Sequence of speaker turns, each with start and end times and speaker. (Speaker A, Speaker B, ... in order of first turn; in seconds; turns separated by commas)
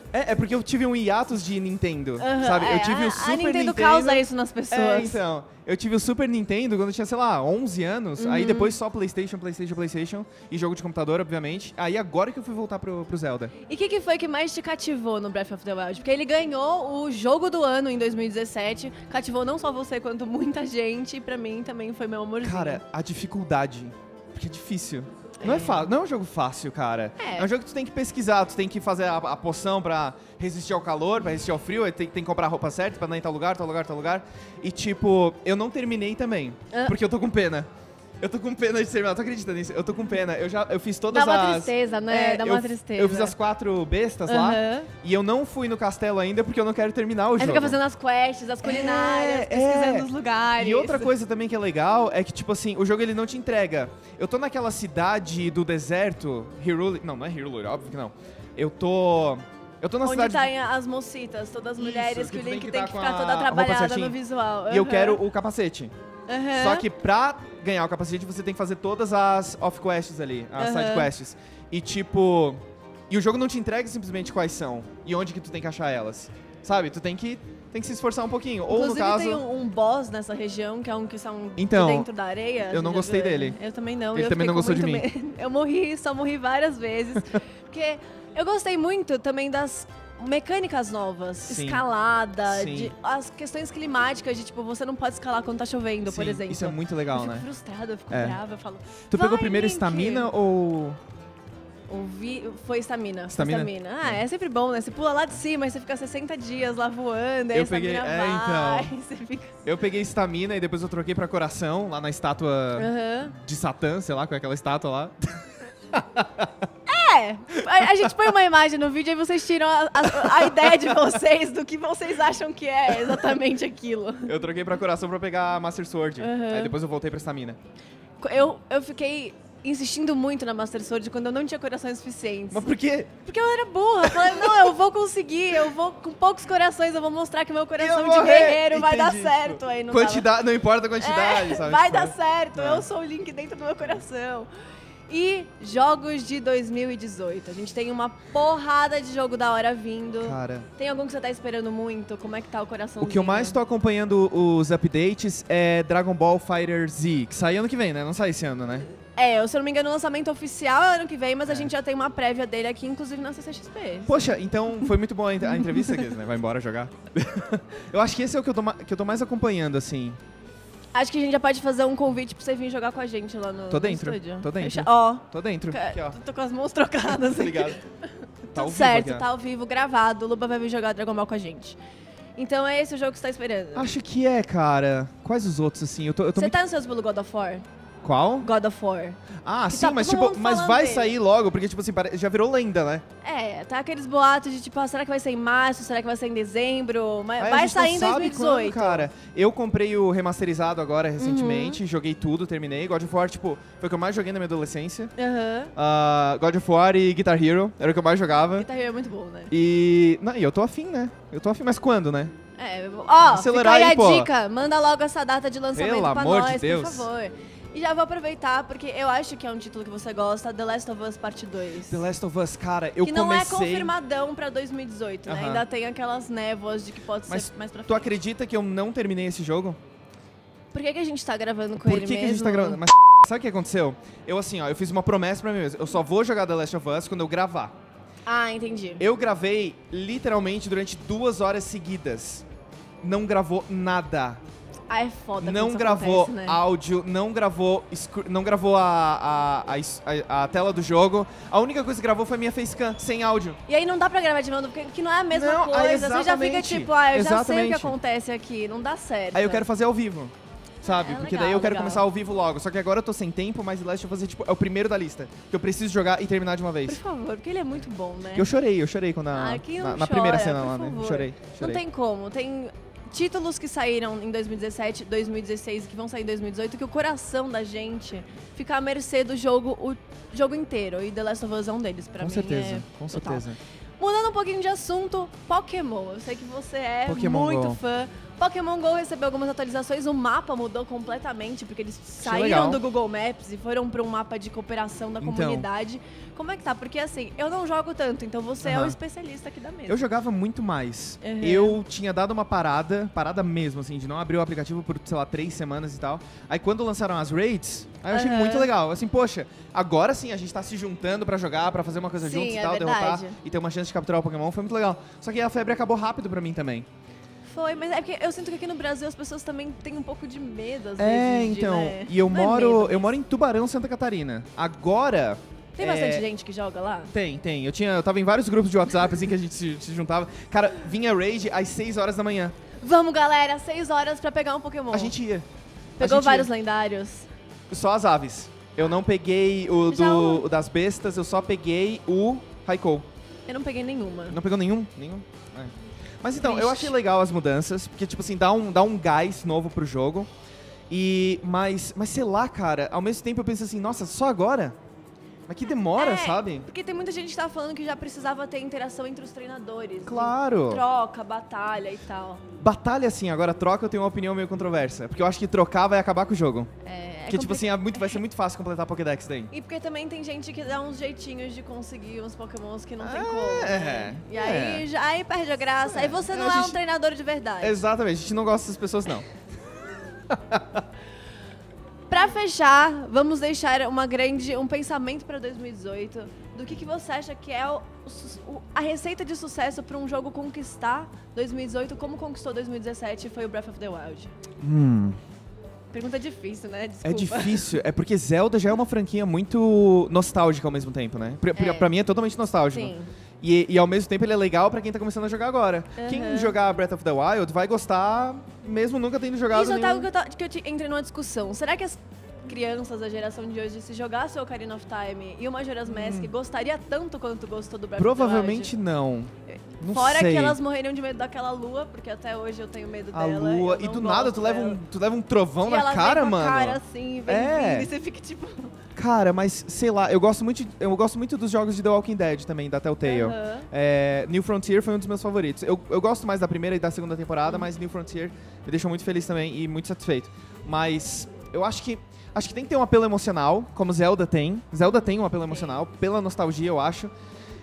Speaker A: 0.1-13.5, Speaker B: 2.2-5.2, Speaker B: 8.2-8.8, Speaker B: 13.7-22.8, Speaker A: 22.4-37.7, Speaker B: 25.4-25.9, Speaker B: 27.2-27.5, Speaker A: 38.2-47.8, Speaker B: 41.1-43.3, Speaker B: 44.3-44.9, Speaker B: 47.4-51.1, Speaker A: 48.6-60.5, Speaker B: 60.0-65.2, Speaker A: 61.8-65.9, Speaker B: 66.3-66.8, Speaker A: 66.5-79.4, Speaker B: 70.6-71.1, Speaker B: 78.7-100.3, Speaker A: 81.6-82.1, Speaker A: 82.7-83.6, Speaker A: 84.1-85.1, Speaker A: 91.5-91.8, Speaker A: 92.4-92.9, Speaker A: 96.0-97.5, Speaker A: 98.1-98.4, Speaker A: 99.1-101.0, Speaker B: 101.9-109.5, Speaker A: 103.3-104.2, Speaker A: 107.5-108.9, Speaker A: 109.7-115.4, Speaker B: 112.8-113.3, Speaker A: 115.9-116.5, Speaker B: 116.9-124.3, Speaker A: 117.7-118.1, Speaker A: 120.2-120.8, Speaker A: 124.3-127.6, Speaker B: 126.2-126.7, Speaker B: 128.2-132.7, Speaker A: 132.5-133.1, Speaker B: 133.2-140.3, Speaker A: 134.0-134.7, Speaker A: 137.8-142.9, Speaker B: 141.0-144.5, Speaker B: 145.1-153.6, Speaker A: 150.2-150.7, Speaker A: 153.0-158.9, Speaker B: 159.2-164.2, Speaker A: 161.5-161.7, Speaker A: 164.1-170.2, Speaker B: 165.5-166.1, Speaker B: 170.9-177.9, Speaker A: 173.7-176.2, Speaker A: 177.1-177.8, Speaker B: 178.5-181.8, Speaker A: 178.6-179.3, Speaker B: 182.4-183.9, Speaker A: 183.8-186.6, Speaker B: 186.4-187.7, Speaker A: 188.0-188.5, Speaker B: 188.4-191.1, Speaker A: 189.4-193.1, Speaker B: 193.2-199.1, Speaker A: 197.4-205.1, Speaker B: 201.2-201.8, Speaker B: 205.2-205.7, Speaker A: 205.8-208.7, Speaker B: 208.5-209.5, Speaker A: 209.5-212.3, Speaker B: 212.6-222.1, Speaker A: 213.2-214.3, Speaker A: 215.7-217.1, Speaker A: 221.9-223.9, Speaker B: 223.0-228.2, Speaker A: 225.3-225.7, Speaker A: 227.3-229.8, Speaker B: 230.7-232.8, Speaker A: 231.8-237.7, Speaker B: 238.2-239.1, Speaker A: 239.0-242.4, Speaker A: 243.0-244.4, Speaker B: 244.9-246.6, Speaker A: 245.4-253.6, Speaker B: 253.7-259.6, Speaker A: 255.3-257.9, Speaker A: 259.3-267.0, Speaker B: 260.8-262.1, Speaker B: 266.9-268.5, Speaker A: 268.3-271.8, Speaker B: 269.3-283.4, Speaker A: 282.2-283.6, Speaker B: 284.0-300.0, Speaker A: 287.1-287.8, Speaker A: 292.2-292.8, Speaker A: 295.2-295.7, Speaker A: 298.6-299.0, Speaker A: 299.9-316.9, Speaker B: 301.2-301.8, Speaker B: 308.1-308.7, Speaker B: 312.2-313.4, Speaker B: 317.4-323.1, Speaker A: 321.0-326.3, Speaker B: 325.8-327.1, Speaker A: 327.1-332.6, Speaker B: 332.8-335.1, Speaker A: 334.9-335.5, Speaker A: 336.0-336.5, Speaker B: 336.0-337.3, Speaker A: 337.7-343.1, Speaker B: 339.9-340.5, Speaker B: 343.5-344.4, Speaker A: 344.3-350.3, Speaker B: 346.4-346.9, Speaker A: 350.9-354.8, Speaker A: 355.5-356.7, Speaker B: 355.9-362.4, Speaker A: 360.1-360.8, Speaker A: 362.6-366.7, Speaker B: 366.8-368.2, Speaker A: 367.3-369.5, Speaker B: 369.5-377.9, Speaker A: 373.0-374.9, Speaker A: 375.8-376.8, Speaker A: 377.6-379.3, Speaker A: 380.3-380.8, Speaker B: 382.1-394.3, Speaker A: 394.6-395.2, Speaker B: 395.9-397.8, Speaker A: 397.0-410.1, Speaker B: 401.6-401.9, Speaker B: 402.7-403.1, Speaker B: 406.0-406.6, Speaker B: 409.5-418.7, Speaker A: 415.9-416.3, Speaker A: 418.0-420.6, Speaker B: 419.5-424.8, Speaker A: 423.1-427.9, Speaker B: 425.6-428.7, Speaker A: 428.9-447.1, Speaker B: 433.0-433.7